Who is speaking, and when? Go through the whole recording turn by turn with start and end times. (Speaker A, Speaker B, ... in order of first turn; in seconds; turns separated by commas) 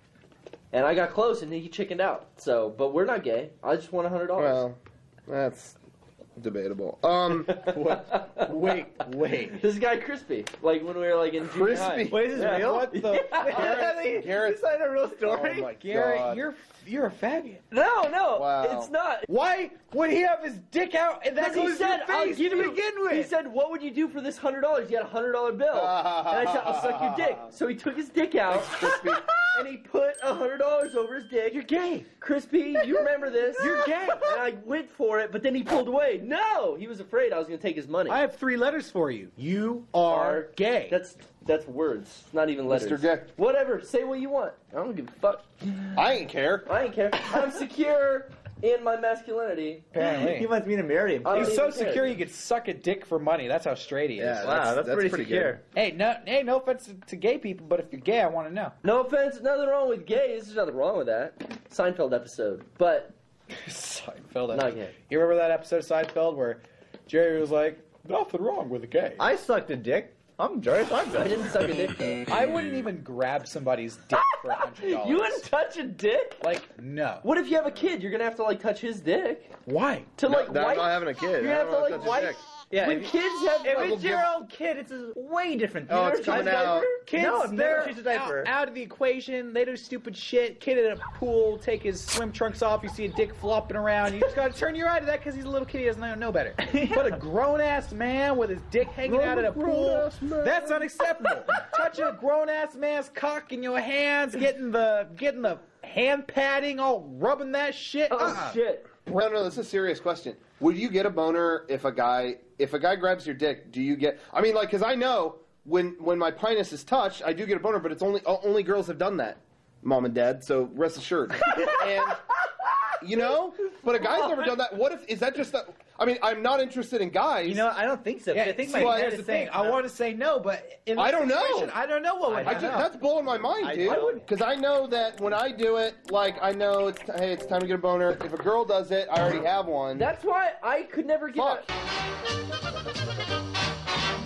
Speaker A: 0.7-4.6, Speaker B: 4.4-5.8, Speaker B: 6.4-7.6, Speaker A: 7.3-13.8, Speaker C: 7.7-9.6, Speaker B: 11.4-12.6, Speaker D: 12.1-15.7, Speaker C: 12.6-14.2, Speaker B: 13.5-14.6, Speaker B: 15.2-16.4, Speaker C: 15.7-17.6, Speaker A: 17.7-19.3, Speaker B: 18.3-18.9, Speaker C: 19.3-23.3, Speaker A: 21.4-38.2, Speaker B: 25.7-27.4, Speaker B: 28.5-29.3, Speaker C: 31.6-32.0, Speaker C: 33.6-34.4, Speaker C: 38.1-41.0, Speaker A: 40.1-45.5, Speaker B: 42.7-43.3, Speaker B: 45.9-46.7, Speaker A: 46.6-49.9, Speaker C: 49.9-50.5, Speaker D: 50.0-51.6, Speaker A: 51.2-52.2, Speaker C: 51.3-54.6, Speaker B: 54.2-55.6, Speaker D: 54.4-55.6, Speaker C: 55.7-58.8, Speaker A: 58.8-63.1, Speaker C: 63.6-69.2, Speaker A: 64.5-64.9, Speaker D: 69.2-71.4, Speaker A: 71.1-72.2, Speaker C: 72.3-75.4, Speaker A: 74.1-76.4, Speaker C: 76.4-77.2, Speaker A: 77.2-79.5, Speaker C: 79.7-80.1, Speaker A: 80.2-84.0, Speaker B: 80.2-82.4, Speaker C: 82.7-84.6, Speaker D: 83.7-88.5, Speaker B: 83.7-84.3, Speaker B: 85.9-86.9, Speaker A: 85.9-87.0, Speaker C: 87.0-108.6, Speaker B: 99.1-100.6, Speaker A: 108.1-108.9, Speaker B: 109.0-122.2, Speaker A: 121.4-121.8, Speaker B: 123.0-127.7, Speaker A: 123.7-124.6, Speaker D: 127.4-129.8, Speaker C: 128.3-132.9, Speaker B: 128.7-129.1, Speaker B: 130.9-131.8, Speaker D: 132.2-132.8, Speaker B: 132.4-140.1, Speaker D: 133.6-134.2, Speaker A: 133.8-134.2, Speaker A: 139.9-141.7, Speaker B: 141.3-141.7